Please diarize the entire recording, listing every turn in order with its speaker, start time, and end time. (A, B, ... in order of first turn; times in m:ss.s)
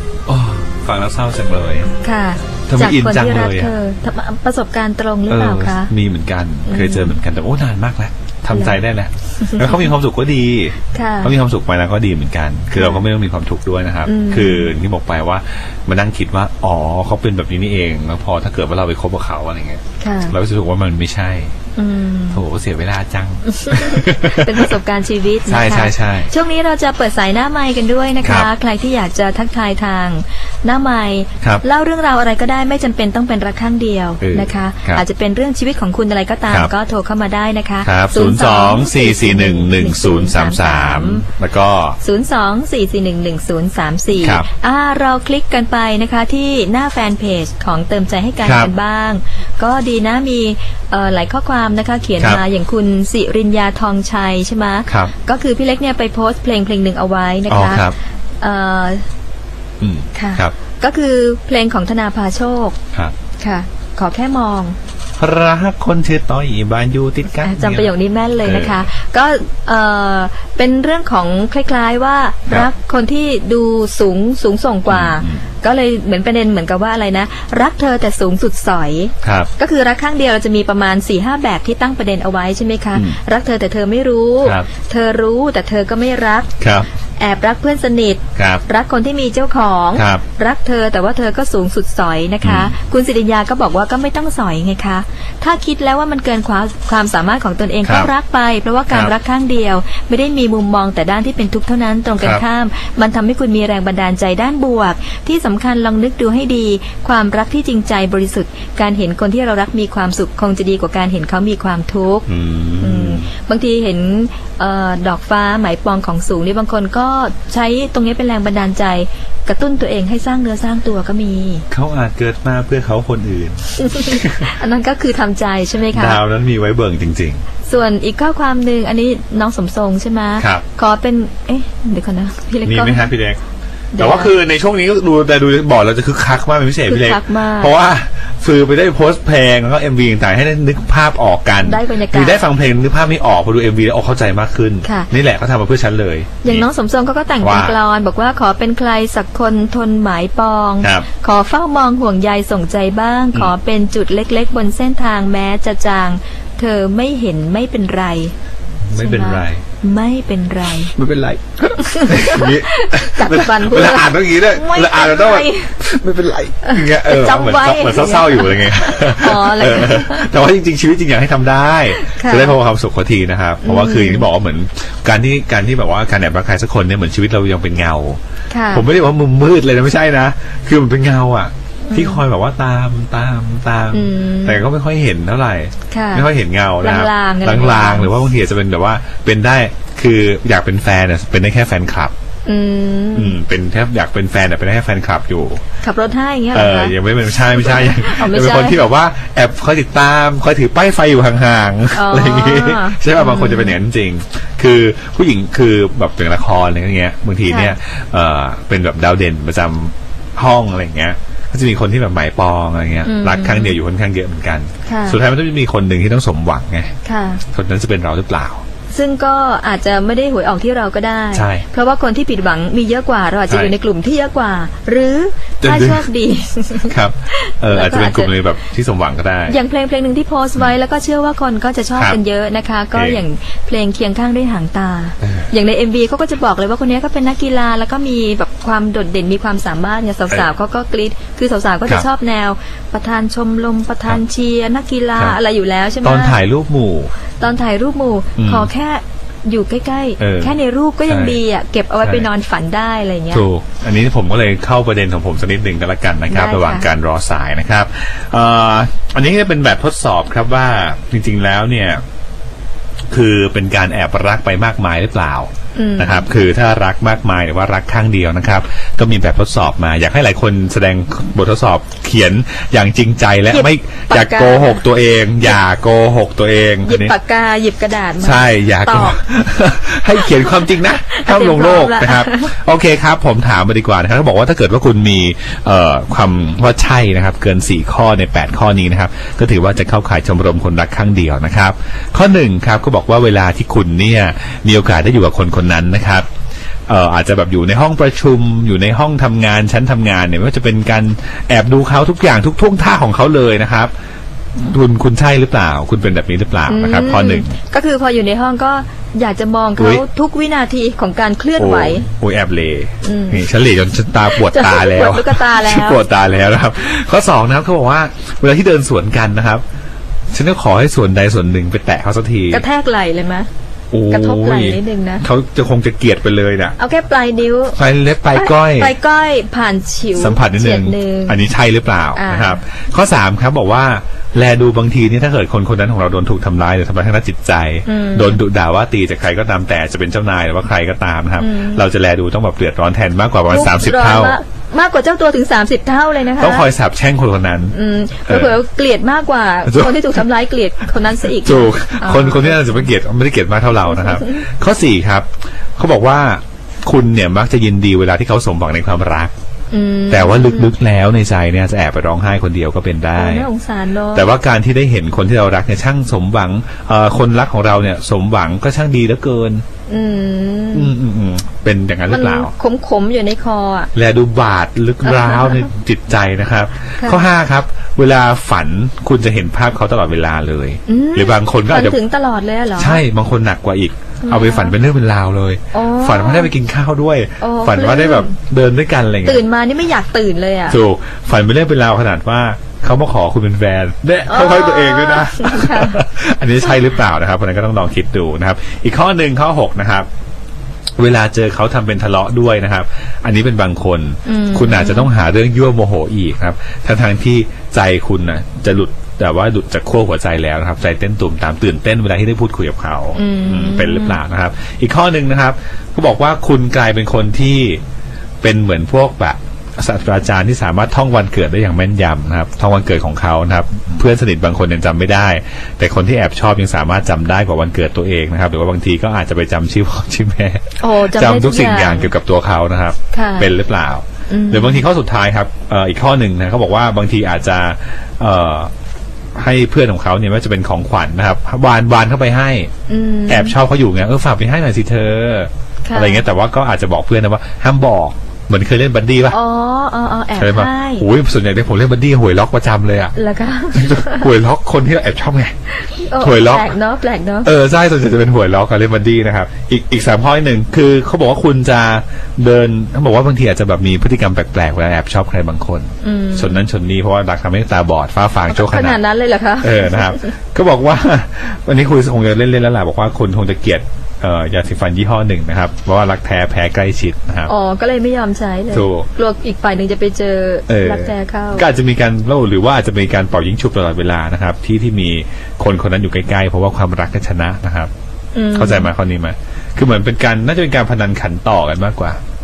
0:00.3-0:01.9 A
0:02.0-0:05.9 B
0:02.7-0:03.7 A
0:05.3-0:21.5 A
0:06.7-0:07.1 B
0:08.5-0:08.8 B
0:09.4-0:09.9 B
0:10.9-0:11.3 B
0:12.7-0:13.0 B
0:14.0-0:14.7 B
0:20.0-0:20.4 B
0:21.8-0:22.4 B
0:22.3-0:24.7 A
0:23.5-0:41.3 B
0:25.5-0:26.3 A
0:28.2-0:28.5 A
0:34.2-0:35.0 A
0:37.8-0:42.0 A
0:42.0-0:59.0 B
0:44.2-0:44.4 A
0:48.4-0:48.7 A
0:54.9-0:55.1 A
0:57.5-0:57.9 A
0:59.8-1:00.5 A
1:00.1-1:02.8 B
1:03.4-1:04.8 B
1:05.2-1:07.9 A
1:07.4-1:26.5 B
1:08.4-1:08.9 A
1:14.9-1:15.4 A
1:19.2-1:19.5 A
1:24.4-1:24.7 A
1:26.6-1:26.8 A
1:27.2-1:52.3 B
1:28.4-1:28.6 A
1:30.0-1:30.2 A
1:32.4-1:32.7 A
1:37.8-1:38.1 A
1:52.3-1:53.3 A
1:52.8-2:01.6 B
2:01.7-2:04.5 A
2:03.8-2:06.2 B
2:05.9-2:07.4 A
2:07.6-2:13.1 B
2:10.4-2:10.6 A
2:12.6-2:13.4 A
2:13.9-2:14.3 B
2:14.0-2:26.7 A
2:16.9-2:17.7 B
2:21.6-2:22.4 B
2:24.8-2:25.1 B
2:26.4-2:38.3 B
2:27.4-2:27.8 A
2:30.8-2:31.1 A
2:38.9-2:39.6 A
2:38.9-2:40.9 B
2:41.0-2:58.2 A
2:41.8-2:45.8 B
2:46.6-2:50.3 B
2:52.0-2:52.6 B
2:53.6-2:54.3 B
2:58.5-2:58.8 B
2:58.7-3:12.1 A
3:01.9-3:02.2 B
3:03.9-3:04.6 B
3:05.9-3:06.3 B
3:06.8-3:08.1 B
3:12.4-3:13.4 B
3:13.1-3:15.6 A
3:15.8-3:18.9 B
3:16.5-3:36.9 A
3:21.9-3:23.8 B
3:27.4-3:27.7 B
3:33.0-3:33.8 B
3:34.8-3:35.2 B
3:37.0-3:37.4 B
3:37.5-3:38.6 A
3:38.9-3:48.3 B
3:41.3-3:41.6 A
3:43.5-3:43.7 A
3:45.6-3:46.1 A
3:46.9-3:49.6 A
3:49.5-4:06.4 B
3:52.9-3:53.2 A
4:06.0-4:07.1 A
4:07.4-4:13.4 B
4:08.4-4:08.7 A
4:10.2-4:10.5 A
4:11.1-4:11.4 A
4:12.0-4:12.3 A
4:13.3-4:22.0 A
4:16.3-4:16.9 B
4:23.1-4:37.1 A
4:25.7-4:26.3 B
4:33.5-4:34.8 B
4:36.8-4:39.2 B
4:38.2-4:56.3 A
4:40.2-4:42.6 B
4:56.9-5:03.9 A
5:04.6-5:07.5 A
5:06.7-5:12.1 B
5:09.8-5:10.0 A
5:11.6-5:19.6 A
5:13.0-5:13.5 B
5:14.3-5:16.0 B
5:20.3-5:22.6 A
5:22.5-5:23.5 B
5:23.9-5:26.8 A
5:24.1-5:25.2 B
5:26.8-5:27.8 B
5:27.8-5:28.9 A
5:28.3-5:31.4 B
5:30.2-5:44.4 A
5:32.1-5:32.6 B
5:37.8-5:38.4 B
5:41.4-5:41.8 B
5:43.5-5:46.7 B
5:46.4-5:47.7 A
5:47.7-5:52.8 B
5:48.3-5:48.6 A
5:49.6-5:50.0 A
5:51.3-5:59.3 A
5:53.9-5:54.4 B
5:59.7-6:00.7 B
6:00.1-6:03.5 A
6:03.2-6:04.3 B
6:04.1-6:09.6 A
6:09.9-6:10.9 B
6:10.7-6:12.5 A
6:12.1-6:13.9 B
6:13.9-6:22.0 A
6:15.0-6:15.7 B
6:17.0-6:17.2 B
6:20.8-6:23.0 B
6:22.8-6:29.4 A
6:24.2-6:24.7 B
6:25.7-6:26.5 B
6:27.4-6:28.3 B
6:29.2-6:30.8 B
6:30.7-6:40.1 A
6:34.3-6:36.0 B
6:41.0-6:57.8 A
6:44.2-6:45.1 B
6:53.1-6:54.2 B
6:58.4-7:18.7 A
7:10.8-7:12.1 B
7:13.1-7:13.5 B
7:14.3-7:14.8 B
7:19.4-7:22.7 A
7:22.9-7:23.6 B
7:23.3-7:29.4 A
7:25.8-7:26.2 B
7:29.3-7:31.1 B
7:30.4-7:33.1 A
7:33.2-7:34.3 B
7:33.7-7:35.5 A
7:35.8-7:37.5 B
7:36.2-7:36.7 A
7:37.4-7:49.0 A
7:46.0-7:46.7 B
7:48.5-7:50.3 B
7:49.6-7:57.5 A
7:57.5-8:01.7 B
7:58.7-7:59.1 A
8:00.7-8:07.9 A
8:08.3-8:08.9 B
8:08.5-8:12.2 A